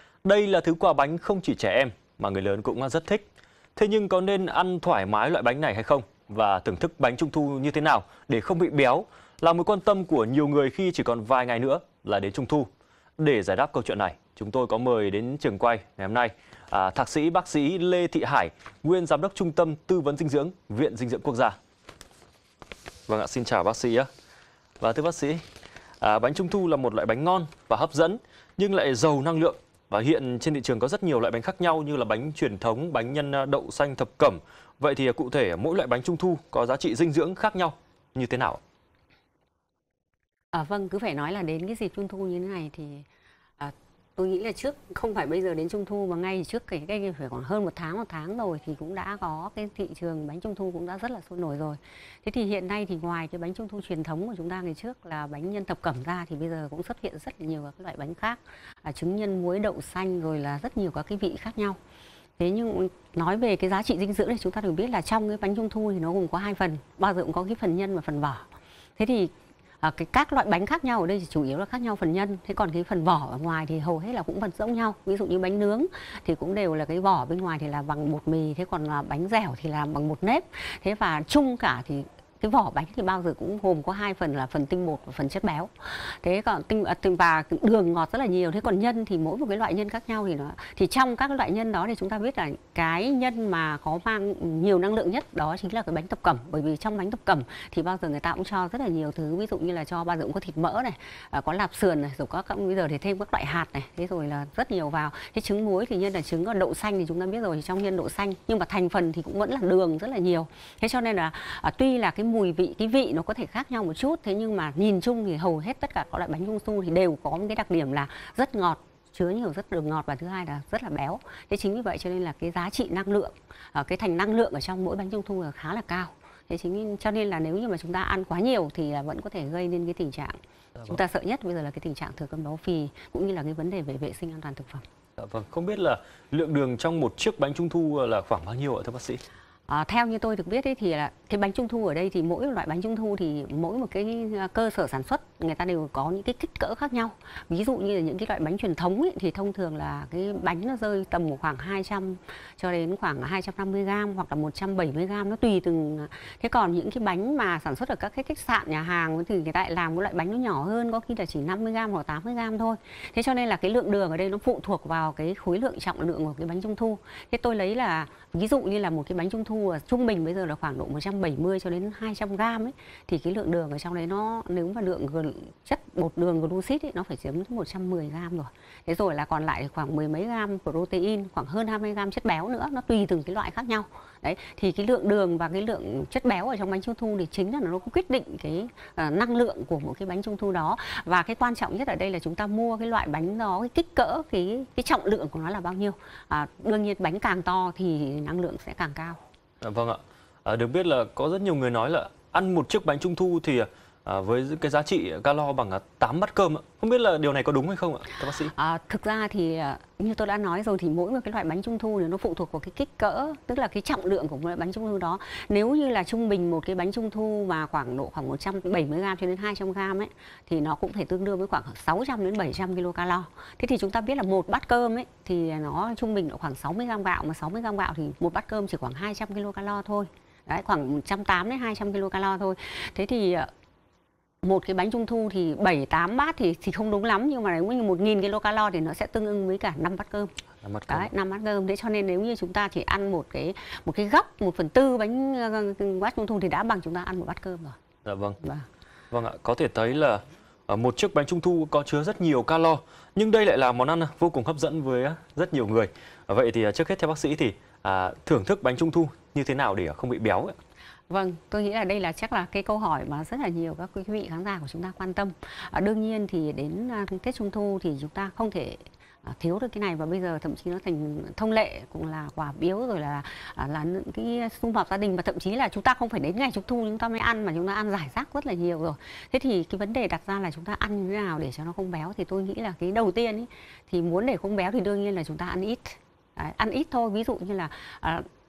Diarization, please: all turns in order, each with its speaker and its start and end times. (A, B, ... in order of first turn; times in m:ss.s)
0:00.2-0:03.2 A
0:03.8-0:21.6 A
0:23.1-0:24.1 A
0:24.8-0:25.4 A
0:26.0-0:38.6 A
0:40.5-0:43.1 B
0:43.6-1:01.8 B
1:02.4-1:08.5 B
1:09.0-2:14.8 B
2:15.2-2:19.2 A
2:19.7-3:19.2 B
3:19.6-3:28.5 A
3:28.4-3:53.5 B
3:54.4-4:00.4 B
4:00.6-4:01.1 A
4:00.9-4:07.8 B
4:08.0-4:08.4 A
4:08.4-4:08.7 B
4:09.1-4:20.6 A
4:21.1-4:48.2 B